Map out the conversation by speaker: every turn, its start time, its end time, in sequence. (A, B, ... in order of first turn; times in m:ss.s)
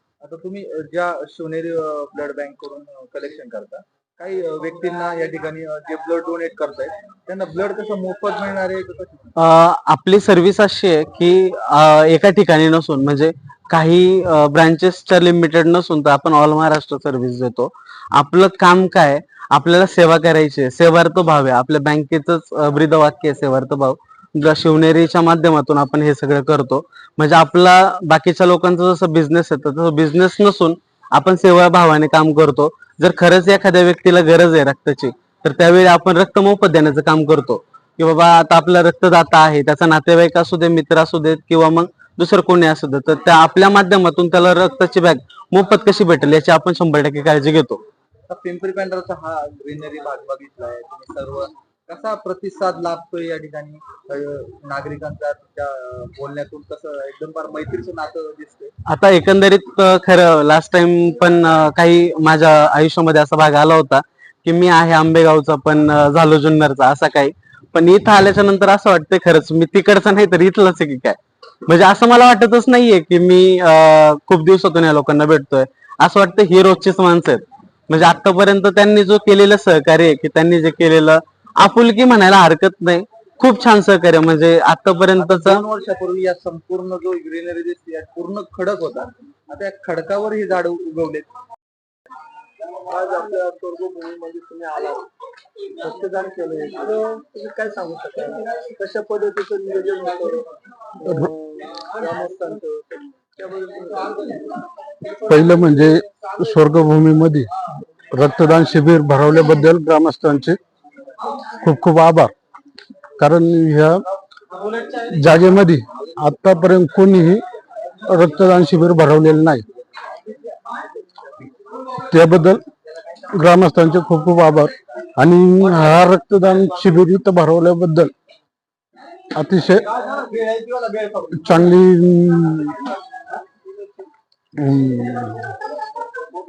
0:00.2-0:09.3 A
0:09.4-0:47.8 B
0:48.3-0:58.7 A
0:58.9-1:25.6 B
1:25.2-1:31.3 A
1:32.9-1:35.1 C
1:35.8-1:44.4 C
1:45.1-1:47.5 D
1:48.1-1:50.6 D
1:51.6-1:52.3 D
1:53.2-1:54.0 D
1:54.8-1:57.4 D
1:58.1-1:59.7 D
2:02.1-2:02.6 D
2:03.3-2:08.1 D
2:09.3-2:09.9 D
2:11.2-2:12.9 D
2:14.6-2:15.6 D